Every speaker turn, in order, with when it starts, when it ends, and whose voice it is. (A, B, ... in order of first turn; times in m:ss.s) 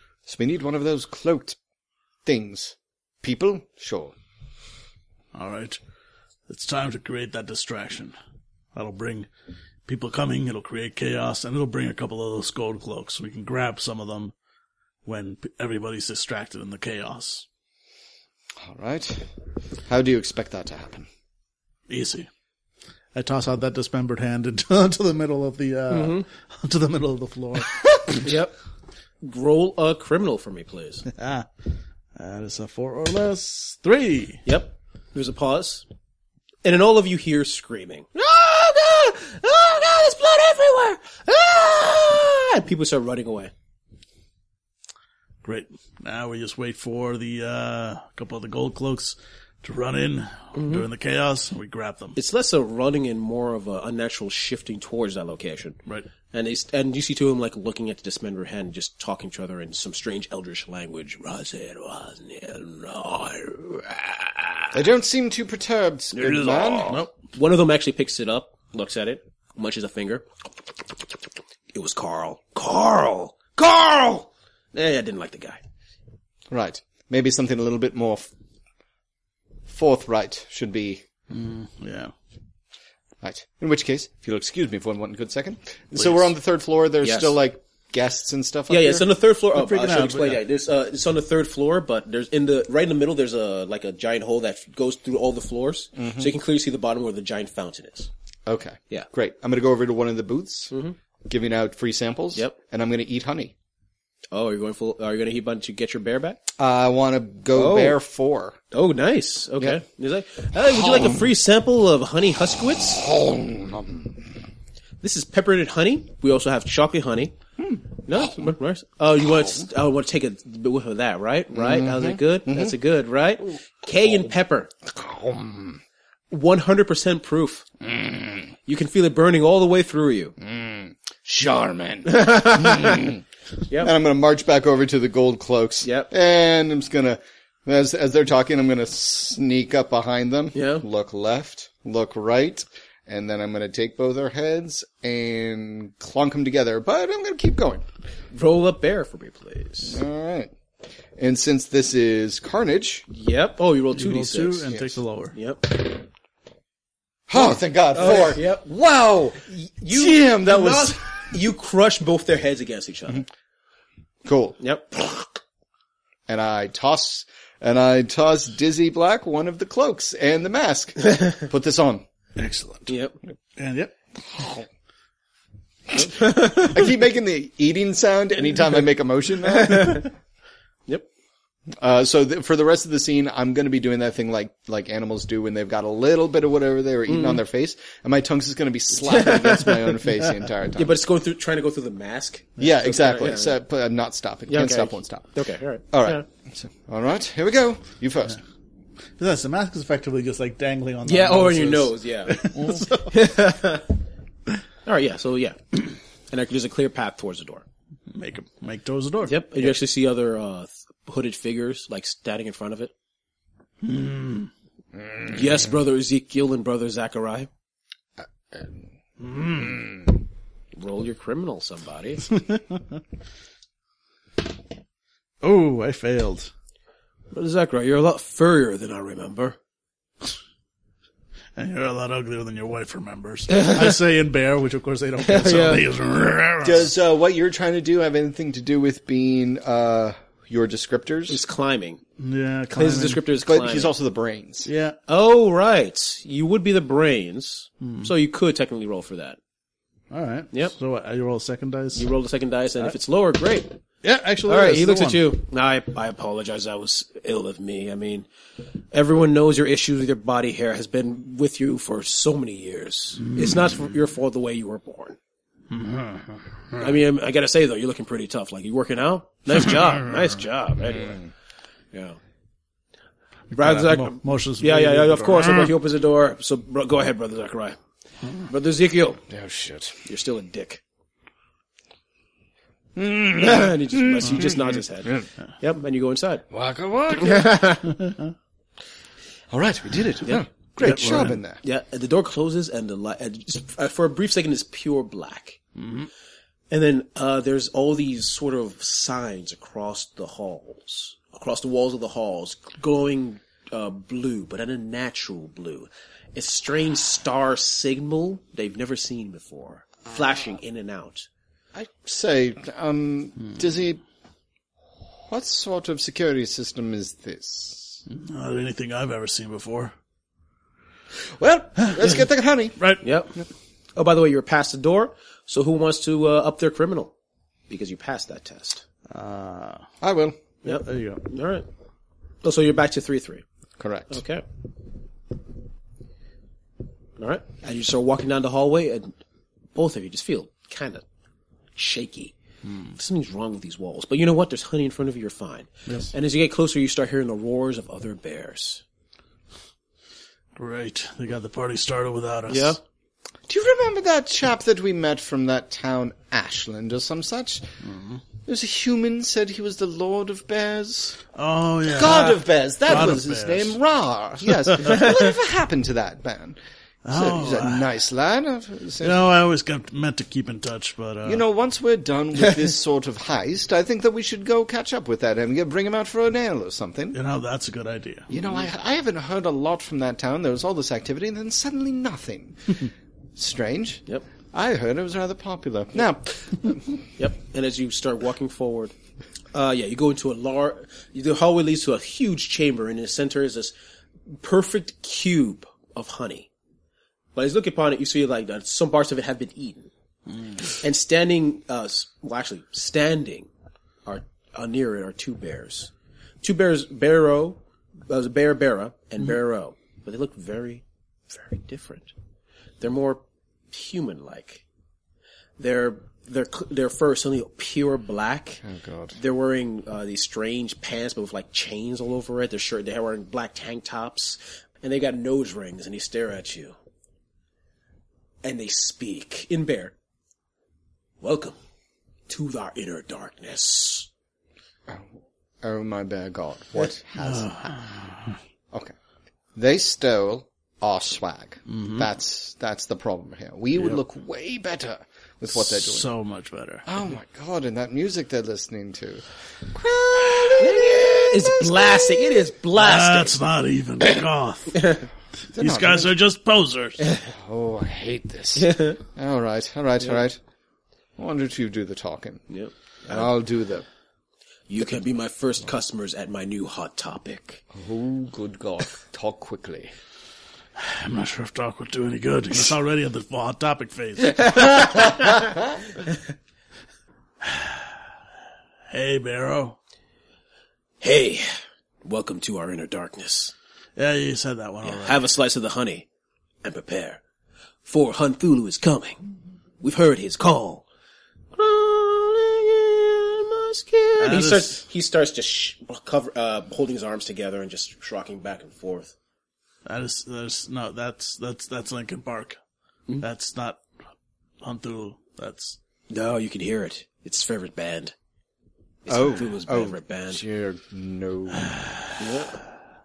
0:00.2-0:01.6 A
0:02.2-0:04.1 A
0:05.3-0:05.8 B
0:06.5-0:08.1 B
0:08.7-0:09.3 B
0:09.8-0:14.3 B
0:15.0-0:17.4 B
0:18.6-0:19.3 A
0:19.8-0:21.1 A
0:21.9-0:22.3 B
0:23.1-0:28.3 B
0:25.9-0:26.2 C
0:28.2-0:28.5 C
0:29.2-0:31.0 C
0:31.1-0:31.5 B
0:32.2-0:34.4 B
0:34.4-0:35.8 C
0:36.6-0:43.5 C
0:45.4-0:52.2 B
0:50.5-0:50.9 C
0:52.2-0:55.8 C
0:56.3-1:04.8 C
1:04.7-1:07.0 A
1:06.1-1:10.3 C
1:11.7-1:15.6 C
1:16.5-1:18.3 A
1:19.7-1:21.0 A
1:21.3-1:22.1 B
1:23.2-1:29.1 A
1:27.0-1:27.4 C
1:28.7-1:38.1 C
1:29.5-1:30.4 B
1:36.0-1:36.3 A
1:38.4-1:40.7 A
1:40.7-1:41.0 C
1:41.3-1:43.5 A
1:44.3-1:46.4 C
1:46.6-1:48.6 A
1:47.5-1:48.0 C
1:48.7-1:53.0 C
1:50.7-1:51.2 A
1:52.8-1:54.2 A
1:55.0-1:57.3 C
1:57.6-1:58.5 A
1:58.0-2:04.7 C
1:59.4-1:59.6 A
2:01.5-2:02.7 A
2:04.8-2:05.8 A
2:06.3-2:07.7 C
2:07.8-2:08.5 A
2:08.6-2:10.3 C
2:10.4-2:13.2 A
2:12.0-2:13.1 C
2:13.8-2:27.8 A
2:15.8-2:16.1 C
2:20.5-2:20.8 C
2:28.3-2:30.0 C
2:29.9-2:30.5 A
2:31.2-2:33.0 A
2:33.1-2:34.7 C
2:33.9-2:35.3 B
2:34.7-2:35.0 A
2:35.3-2:36.0 C
2:37.3-2:41.0 A
2:37.3-2:38.7 C
2:39.5-2:43.2 C
2:44.2-2:44.6 A
2:44.6-2:45.4 C
2:46.3-2:52.0 A
2:51.1-2:51.4 C
2:52.4-2:52.9 B
2:52.9-2:53.2 C
2:53.6-2:53.9 B
2:54.3-2:54.6 A
2:55.9-3:00.0 A
2:55.9-2:56.8 C
2:59.5-3:00.1 C
3:01.8-3:11.0 A
3:07.1-3:07.4 C
3:09.0-3:10.0 C
3:10.8-3:13.6 C
3:12.6-3:15.3 A
3:14.5-3:16.2 C
3:15.9-3:18.4 A
3:19.2-3:23.2 B
3:21.0-3:23.9 C
3:24.8-3:27.6 C
3:28.1-3:29.4 B
3:29.2-3:32.9 C
3:33.8-3:34.5 B
3:35.0-3:35.4 A
3:35.2-3:37.5 C
3:38.5-3:38.8 A
3:39.2-3:39.8 B
3:39.5-3:39.9 A
3:40.8-3:42.2 C
3:42.3-3:42.9 B
3:45.4-3:46.5 B
3:47.3-3:49.6 C
3:51.6-3:56.9 B
3:53.5-3:53.9 C
3:55.2-3:55.8 C
3:56.6-4:01.4 A
4:01.3-4:02.0 C
4:02.2-4:03.2 B
4:02.7-4:03.9 C
4:03.4-4:04.7 A
4:04.6-4:05.0 B
4:05.1-4:09.4 C
4:07.8-4:08.1 B
4:10.1-4:12.1 B
4:11.9-4:13.8 C
4:14.0-4:15.4 B
4:14.4-4:18.3 C
4:18.9-4:25.2 C
4:23.4-4:23.7 B
4:25.7-4:26.8 B
4:26.8-4:31.2 C
4:31.9-4:32.2 C
4:33.5-4:35.7 B
4:33.6-4:37.8 C
4:38.4-4:39.2 C
4:39.3-4:40.0 A
4:40.0-4:40.8 C
4:42.9-4:45.2 A
4:43.4-4:46.4 C
4:46.5-4:47.6 A
4:47.1-4:48.0 C
4:49.5-4:51.6 A
4:50.8-4:51.4 B
4:51.6-4:55.6 C
4:56.7-5:11.3 C
5:11.7-5:14.0 A
5:15.3-5:18.0 A
5:18.1-5:19.9 B
5:21.2-5:22.8 A
5:21.8-5:22.1 B
5:23.0-5:23.3 C
5:23.9-5:27.1 C
5:27.7-5:28.8 C
5:29.1-5:29.9 B
5:30.0-5:30.4 A
5:30.6-5:31.2 B
5:30.6-5:31.7 C
5:32.4-5:33.4 C
5:33.8-5:34.2 A
5:34.1-5:34.4 C
5:37.2-5:39.2 C
5:39.7-5:41.0 C
5:41.8-5:42.3 C
5:42.9-5:48.8 C
5:50.6-5:52.8 B
5:52.5-5:52.8 C
5:53.5-5:57.6 A
5:58.4-6:01.2 A
6:01.3-6:03.7 B
6:01.9-6:06.6 A
6:02.1-6:02.4 C
6:07.0-6:07.9 B
6:07.1-6:09.2 A
6:09.0-6:11.4 B
6:11.2-6:17.2 A
6:17.1-6:18.3 B
6:18.3-6:26.9 A
6:27.2-6:28.9 C
6:29.5-6:33.7 C
6:34.3-6:36.5 C
6:37.3-6:39.9 C
6:40.8-6:43.5 C
6:44.0-6:45.9 C
6:46.4-6:52.1 C
6:52.8-6:54.6 C
6:55.6-6:58.6 C
6:58.6-6:59.2 A
6:59.1-7:06.8 C
7:08.4-7:09.9 C
7:11.2-7:11.6 C
7:12.3-7:14.1 C
7:14.9-7:17.8 A
7:17.2-7:18.2 B
7:19.6-7:26.1 A
7:21.7-7:22.0 B
7:25.5-7:26.9 B
7:26.9-7:32.5 A
7:30.6-7:33.4 C
7:32.8-7:34.9 B
7:34.7-7:35.1 C
7:35.5-7:36.1 A
7:35.6-7:37.0 B
7:37.3-7:40.4 A
7:38.5-7:39.0 C
7:41.2-7:42.4 A
7:42.5-7:43.3 C
7:43.1-7:43.8 A
7:44.7-7:47.6 C
7:47.7-7:49.9 A
7:50.8-7:55.1 B
7:54.2-7:55.4 C
7:57.4-7:57.8 B
7:58.9-7:59.8 B
8:01.0-8:01.5 C
8:02.0-8:03.5 C
8:04.0-8:05.2 B
8:04.8-8:06.1 C
8:06.6-8:07.2 C
8:07.8-8:09.2 C
8:09.8-8:10.8 C
8:11.5-8:19.1 C
8:14.2-8:14.8 B
8:19.8-8:22.6 B
8:23.2-8:23.8 B
8:24.6-8:25.8 B
8:26.1-8:28.1 C
8:29.0-8:30.4 C
8:29.1-8:31.7 A
8:32.2-8:32.6 C